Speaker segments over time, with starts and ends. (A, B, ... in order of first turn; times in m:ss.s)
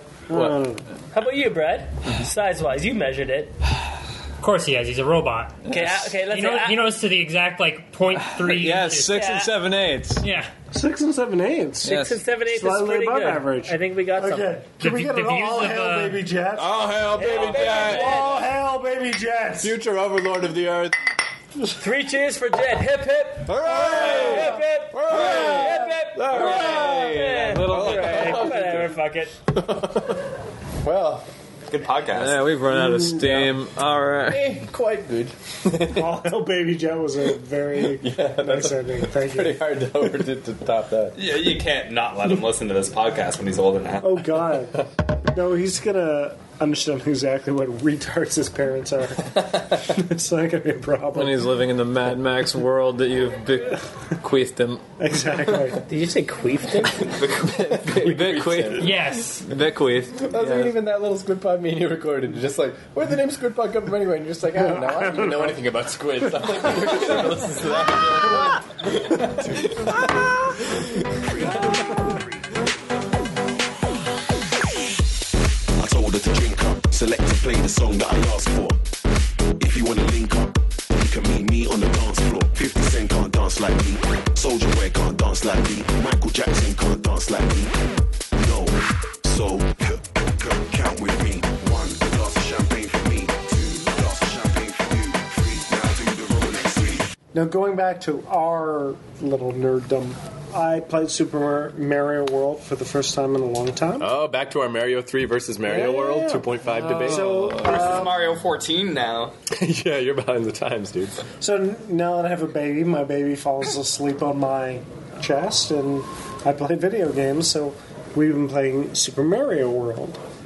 0:00.3-0:00.8 A
0:00.3-0:00.6 B
0:01.1-0:03.5 C
0:04.4-0:09.2 D
0:05.7-0:06.0 E
0:05.7-0:06.9 C
0:08.2-0:10.2 E
0:09.1-0:09.5 C
0:10.2-0:10.5 D
0:10.7-0:16.8 A
0:11.8-0:12.2 E
0:11.8-0:14.6 C
0:14.8-0:16.2 D
0:16.6-0:18.3 B
0:17.0-0:18.0 E
0:17.2-0:18.4 C
0:17.6-0:19.8 A
0:19.6-0:21.0 B
0:21.8-0:29.3 C
0:23.4-0:28.9 B
0:23.8-0:28.8 E
0:23.9-0:24.3 A
0:25.1-0:25.6 F
0:26.4-0:26.7 F
0:29.5-0:30.3 B
0:30.8-0:31.3 B
0:31.7-0:32.4 F
0:32.1-0:34.4 E
0:32.7-0:33.5 A
0:34.3-0:36.2 B
0:35.7-0:39.7 A
0:37.8-0:41.2 B
0:41.2-0:44.4 F
0:44.0-0:51.6 A
0:51.1-0:54.8 E
0:55.0-0:55.8 A
0:55.8-0:57.0 C
0:57.0-0:58.9 F
0:57.4-1:00.7 E
0:58.4-0:58.7 B
0:58.8-0:59.5 D
1:00.1-1:10.0 B
1:04.6-1:05.6 A
1:06.9-1:07.2 F
1:09.4-1:09.8 G
1:11.2-1:12.3 G
1:15.8-1:18.8 G
1:19.6-1:27.8 G
1:28.3-1:37.1 G
1:37.3-1:44.1 A
1:44.0-1:47.8 B
1:45.6-1:48.4 A
1:46.8-1:47.7 E
1:47.6-1:49.3 F
1:49.5-1:51.2 B
1:51.4-2:00.2 A